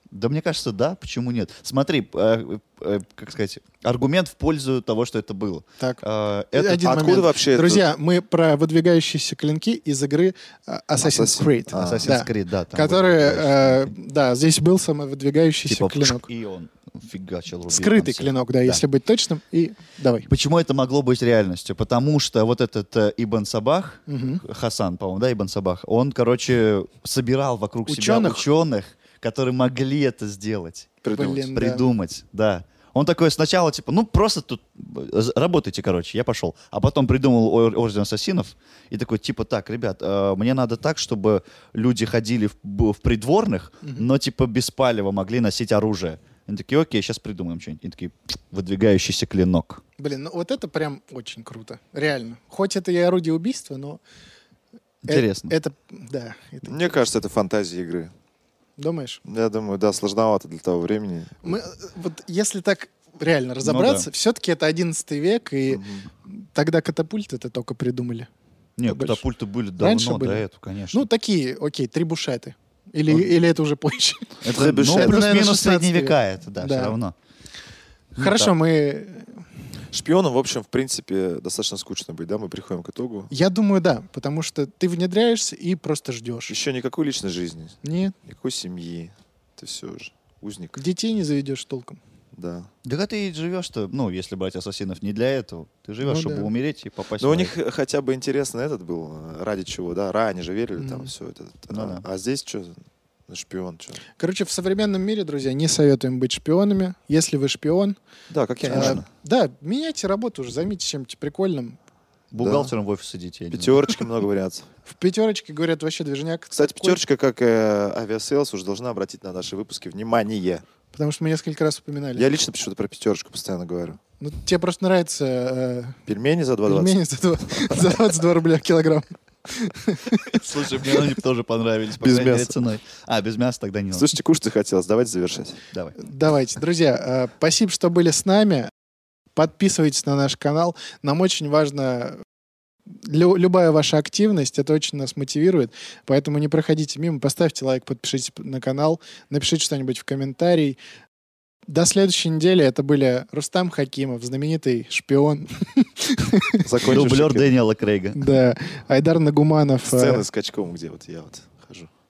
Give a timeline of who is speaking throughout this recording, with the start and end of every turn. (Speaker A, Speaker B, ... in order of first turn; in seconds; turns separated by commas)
Speaker A: 0.1-6.8, Speaker B: 6.5-16.3, Speaker C: 6.6-7.8, Speaker C: 11.0-12.1, Speaker A: 11.7-13.9, Speaker A: 15.7-18.8, Speaker B: 17.7-20.3, Speaker A: 20.3-49.8, Speaker B: 24.1-24.4, Speaker B: 27.9-28.5, Speaker C: 31.0-31.5, Speaker B: 31.1-31.8, Speaker B: 43.8-44.1, Speaker B: 50.0-54.0, Speaker A: 55.0-55.5, Speaker B: 55.1-56.9, Speaker C: 56.6-58.1, Speaker B: 58.8-59.2, Speaker C: 59.2-61.5, Speaker B: 61.4-68.3, Speaker A: 63.6-64.1, Speaker C: 65.7-66.0, Speaker A: 68.8-71.1, Speaker B: 68.8-69.2, Speaker B: 69.8-77.0, Speaker A: 74.4-77.1, Speaker C: 74.5-75.5, Speaker A: 78.2-78.5, Speaker B: 78.2-79.4, Speaker C: 79.9-83.3, Speaker B: 83.3-86.5, Speaker C: 86.5-90.8, Speaker B: 87.8-88.1, Speaker B: 90.7-92.0, Speaker C: 92.3-92.7, Speaker A: 92.8-97.5, Speaker B: 96.0-96.5, Speaker C: 97.2-104.0, Speaker B: 100.8-101.1, Speaker A: 101.7-102.0, Speaker B: 104.2-108.0, Speaker C: 108.3-109.0, Speaker B: 108.6-111.8, Speaker A: 108.7-109.0, Speaker A: 112.3-114.0, Speaker C: 112.4-112.7, Speaker C: 113.5-114.7, Speaker B: 114.9-117.0, Speaker C: 116.5-120.6, Speaker B: 120.9-122.2, Speaker C: 122.2-124.0, Speaker B: 124.2-126.0, Speaker C: 126.1-127.0, Speaker B: 126.7-131.1, Speaker C: 127.5-128.0, Speaker A: 130.3-134.1, Speaker C: 132.0-132.6, Speaker C: 133.9-135.6, Speaker B: 136.0-138.7, Speaker B: 139.3-142.2, Speaker B: 142.9-150.8, Speaker B: 151.7-156.7, Speaker C: 156.6-157.6, Speaker A: 156.9-158.3, Speaker B: 158.1-160.2, Speaker C: 159.9-161.9